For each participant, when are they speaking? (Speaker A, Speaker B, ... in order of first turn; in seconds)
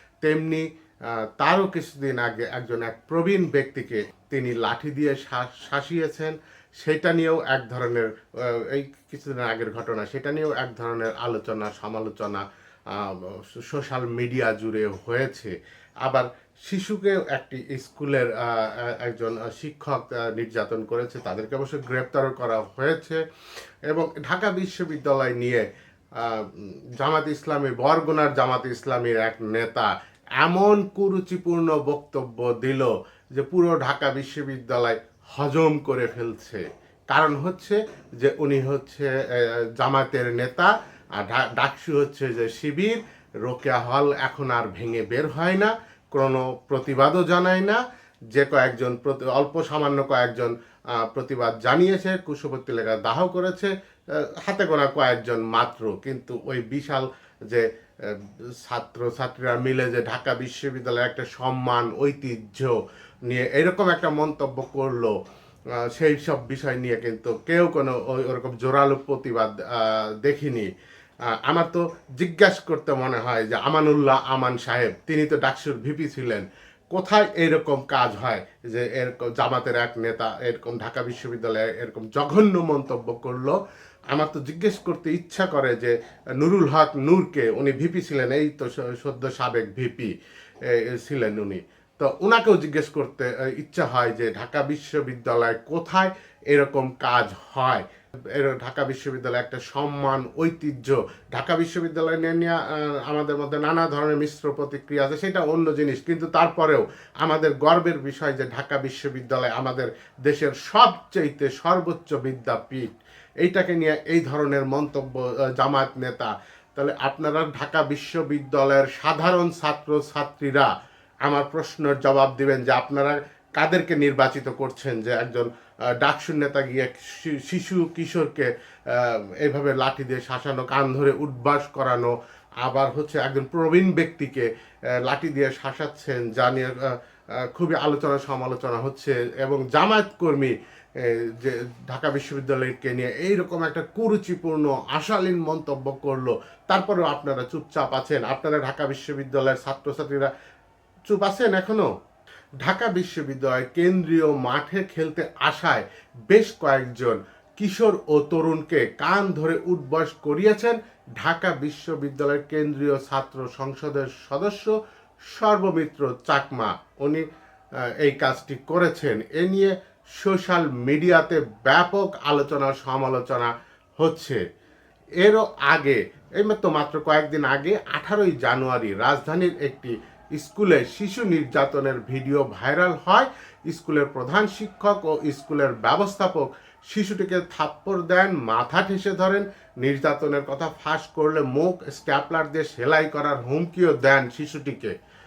Speaker A: 0.2-23.2, 23.9-25.7, 26.2-47.8, 48.3-65.2, 65.8-70.7, 71.3-83.6, 84.1-90.1, 90.6-112.9, 113.4-120.7, 121.2-125.5, 126.0-132.1, 132.6-134.5, 135.0-150.3, 151.1-151.9, 152.6-164.8, 165.3-167.2, 168.0-174.4, 175.2-194.9